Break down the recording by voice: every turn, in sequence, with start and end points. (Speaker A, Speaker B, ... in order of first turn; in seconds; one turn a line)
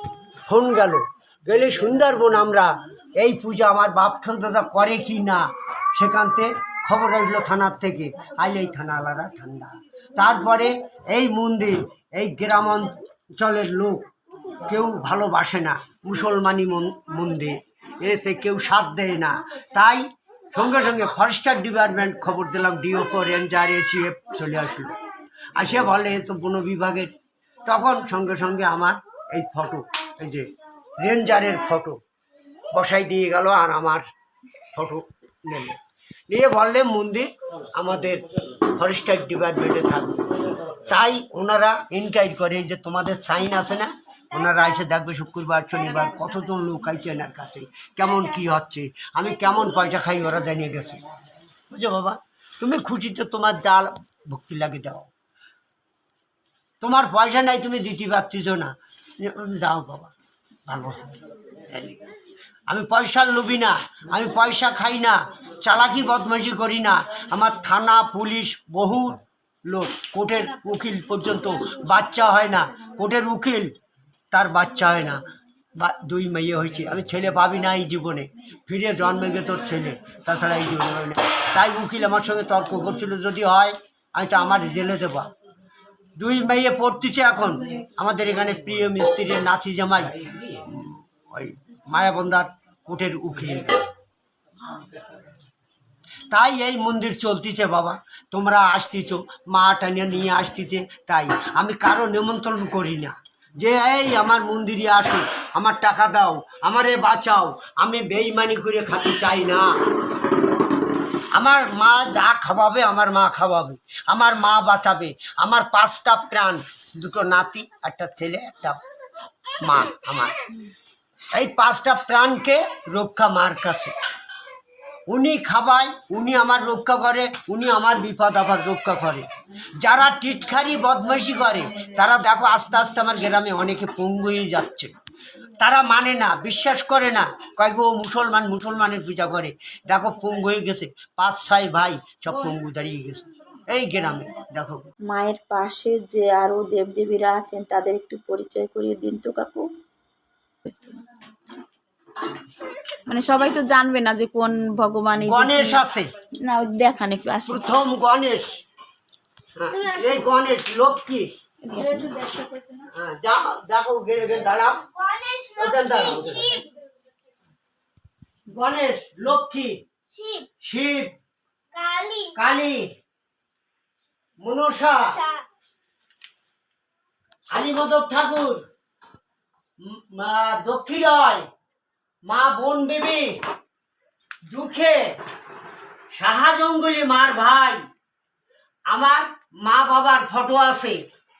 Speaker A: 0.4-14.0
Speaker A: 14.6-25.0
Speaker A: 25.5-27.1
Speaker A: 27.6-32.0
Speaker A: 32.7-34.0
Speaker A: 34.7-35.8
Speaker A: 36.3-51.0
Speaker A: 51.7-55.1
Speaker A: 56.8-60.1
Speaker A: 60.7-62.0
Speaker A: 62.7-73.7
Speaker A: 74.3-75.2
Speaker A: 75.8-85.3
Speaker A: 86.2-93.8
Speaker A: 96.3-109.7
Speaker A: 111.3-118.8
Speaker A: 119.6-120.4
Speaker A: 121.3-123.9
Speaker A: 125.1-129.2
Speaker A: 129.8-134.9
Speaker A: 135.6-144.8
Speaker B: 145.1-149.7
Speaker B: 150.7-150.9
Speaker B: 153.1-155.8
Speaker A: 155.2-156.1
Speaker B: 156.4-157.7
Speaker A: 157.5-158.6
Speaker A: 159.6-161.3
Speaker B: 161.7-162.8
Speaker A: 162.9-164.8
Speaker C: 164.9-166.7
Speaker A: 165.6-166.6
Speaker A: 168.5-169.8
Speaker C: 170.1-170.5
Speaker A: 170.6-171.1
Speaker C: 171.7-172.3
Speaker A: 172.3-172.8
Speaker A: 174.4-175.0
Speaker C: 175.1-175.4
Speaker A: 177.5-178.6
Speaker A: 179.8-181.4
Speaker A: 182.3-183.3
Speaker A: 184.5-185.0
Speaker A: 186.2-187.8
Speaker A: 188.9-191.0